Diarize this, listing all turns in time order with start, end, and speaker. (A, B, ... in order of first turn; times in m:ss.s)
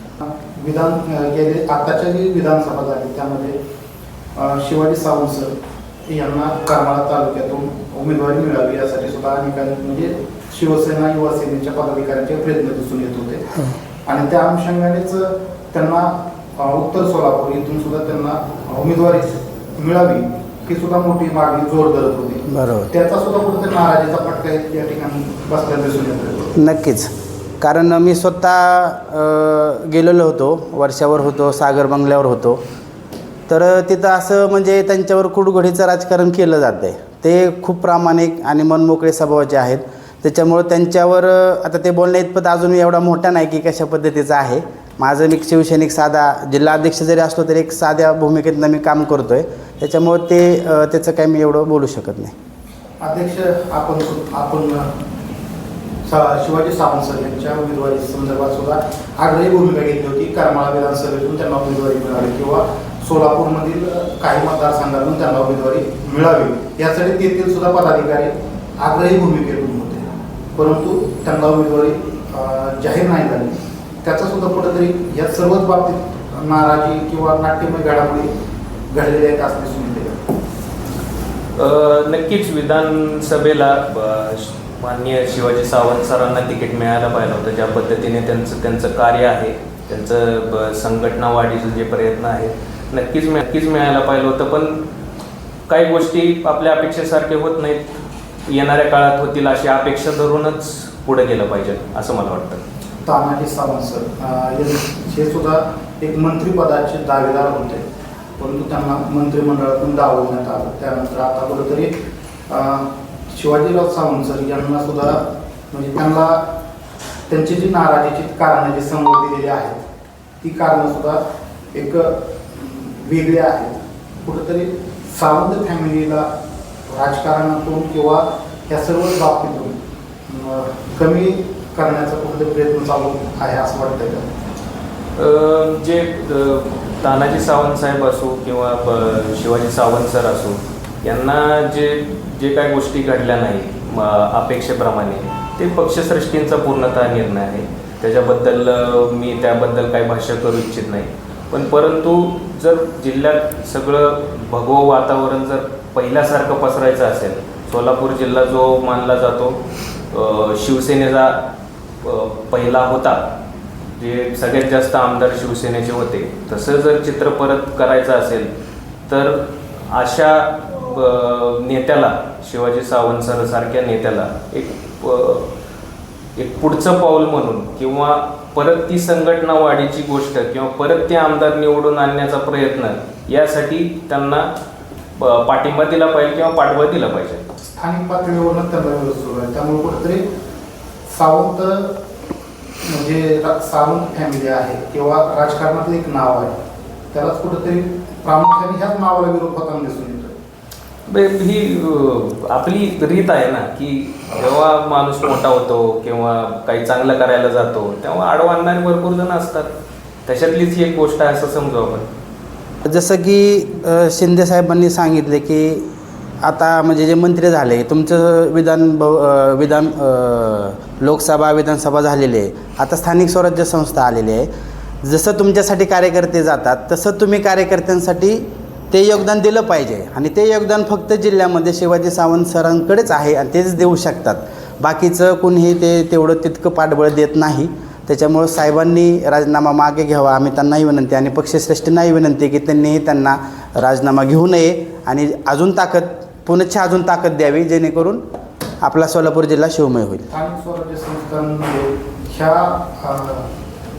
0:00.2-0:03.6 A
0:04.3-0:05.5 A
0:06.1-0:26.6 A
0:22.5-0:22.9 B
0:26.5-0:27.1 B
0:27.6-0:32.6 B
0:33.5-0:52.3 B
0:53.0-0:54.9 A
0:56.0-1:18.3 A
1:18.9-1:20.2 A
1:21.6-1:34.8 C
1:35.7-1:37.9 C
1:38.5-1:42.6 C
1:43.0-1:47.8 A
1:48.4-1:51.9 A
1:52.5-1:56.4 A
1:57.3-1:59.8 A
2:00.4-2:01.2 A
2:01.7-2:06.3 A
2:06.9-2:09.7 A
2:10.3-2:14.2 A
2:15.2-2:39.6 C
2:40.1-2:41.4 C
2:42.0-2:43.2 C
2:44.0-2:48.5 C
2:49.1-2:55.5 C
2:56.4-3:04.5 C
3:05.2-3:07.4 C
3:07.8-3:10.2 A
3:11.1-3:11.9 A
3:12.8-3:16.5 A
3:17.1-3:20.3 A
3:21.1-3:29.7 C
3:30.2-3:32.1 C
3:32.8-3:35.9 B
3:36.4-3:44.5 B
3:45.0-4:08.2 B
4:08.8-4:10.3 B
4:10.3-4:13.5 A